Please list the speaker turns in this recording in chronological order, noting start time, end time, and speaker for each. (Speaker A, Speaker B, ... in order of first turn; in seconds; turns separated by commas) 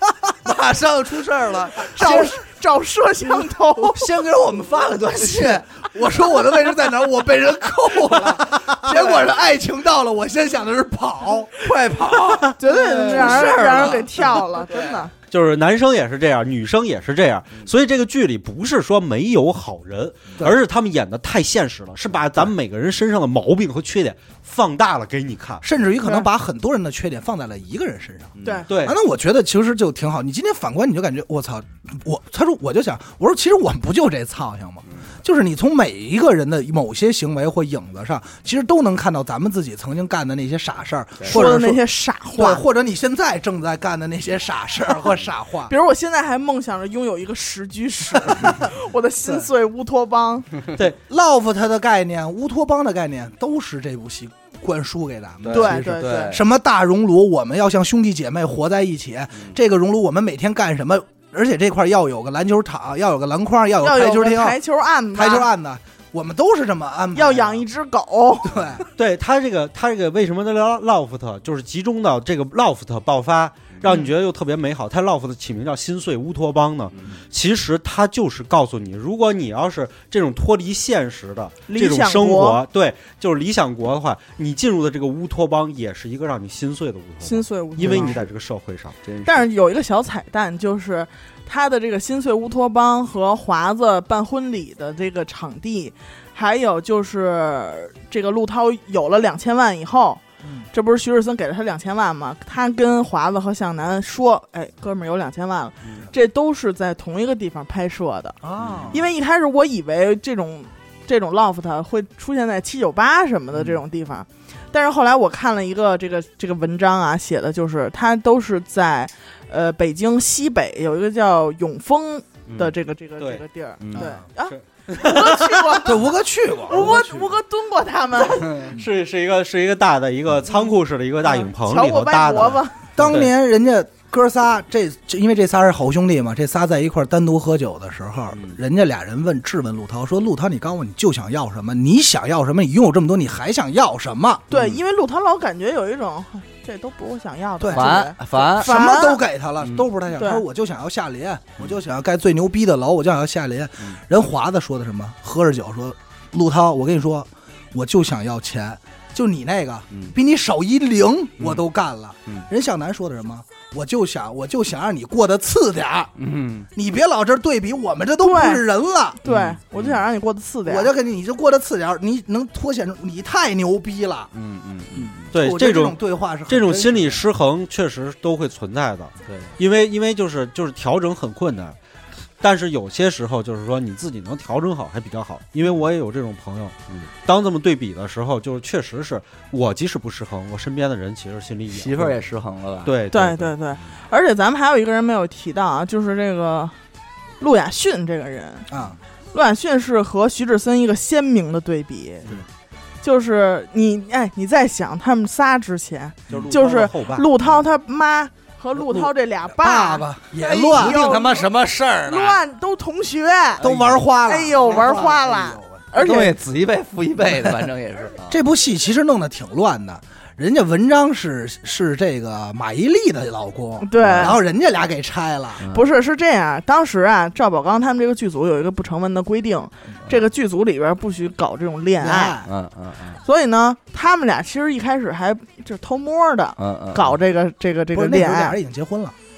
Speaker A: 0.4-2.3, Speaker B: 1.9-2.3, Speaker C: 1.9-4.0, Speaker A: 3.8-5.7, Speaker B: 5.2-11.6, Speaker A: 8.1-9.3, Speaker A: 11.6-15.0, Speaker C: 12.6-15.1, Speaker B: 13.0-14.0, Speaker D: 15.3-25.6, Speaker B: 25.6-41.8, Speaker C: 26.0-26.3, Speaker A: 28.4-28.7, Speaker C: 28.4-28.7, Speaker D: 28.7-29.0, Speaker A: 41.2-41.4, Speaker C: 41.3-42.6, Speaker B: 42.3-45.7, Speaker C: 45.7-50.5, Speaker B: 48.2-48.6, Speaker B: 50.8-64.6, Speaker A: 55.4-56.4, Speaker C: 55.5-56.4, Speaker C: 63.8-65.5, Speaker B: 65.1-67.6, Speaker C: 67.1-68.6, Speaker B: 68.4-68.8, Speaker D: 69.0-89.0, Speaker C: 81.7-82.6, Speaker C: 87.2-88.2, Speaker A: 87.8-88.2, Speaker A: 89.0-89.5, Speaker C: 89.2-100.2, Speaker B: 100.4-100.7, Speaker C: 100.7-108.4, Speaker B: 108.4-109.0, Speaker A: 108.6-109.0, Speaker C: 108.9-126.1, Speaker A: 122.5-122.7, Speaker A: 123.8-124.1, Speaker D: 124.4-125.8, Speaker B: 125.8-127.3, Speaker C: 126.6-128.7, Speaker D: 128.8-133.3, Speaker C: 131.2-132.8, Speaker B: 132.9-144.4, Speaker A: 138.3-138.6, Speaker A: 144.5-144.8, Speaker C: 144.5-149.2, Speaker B: 147.6-166.1, Speaker A: 147.7-148.8, Speaker A: 149.6-149.9, Speaker C: 150.1-150.4, Speaker A: 166.2-166.7, Speaker B: 166.7-169.2, Speaker C: 168.2-168.6, Speaker C: 169.2-170.9, Speaker A: 169.2-170.0, Speaker B: 170.6-174.3, Speaker A: 174.3-175.3, Speaker B: 174.9-177.2, Speaker D: 175.3-181.8, Speaker A: 179.2-179.5, Speaker D: 182.4-192.2, Speaker A: 191.7-192.9, Speaker D: 192.8-193.5, Speaker C: 193.1-196.7, Speaker C: 197.4-198.7, Speaker B: 198.7-199.0, Speaker C: 199.3-202.2, Speaker C: 203.0-211.4, Speaker D: 206.3-207.3, Speaker B: 208.8-211.0, Speaker A: 210.4-212.4, Speaker C: 212.1-213.6, Speaker B: 213.6-215.8, Speaker A: 213.6-214.0, Speaker C: 214.2-216.3, Speaker A: 215.9-218.5, Speaker B: 218.3-225.7, Speaker C: 223.8-224.4, Speaker A: 224.0-224.3, Speaker A: 225.6-225.8, Speaker C: 225.7-232.3, Speaker B: 232.0-232.5, Speaker A: 232.4-233.2, Speaker C: 233.2-238.6, Speaker A: 236.6-237.2, Speaker B: 237.9-239.1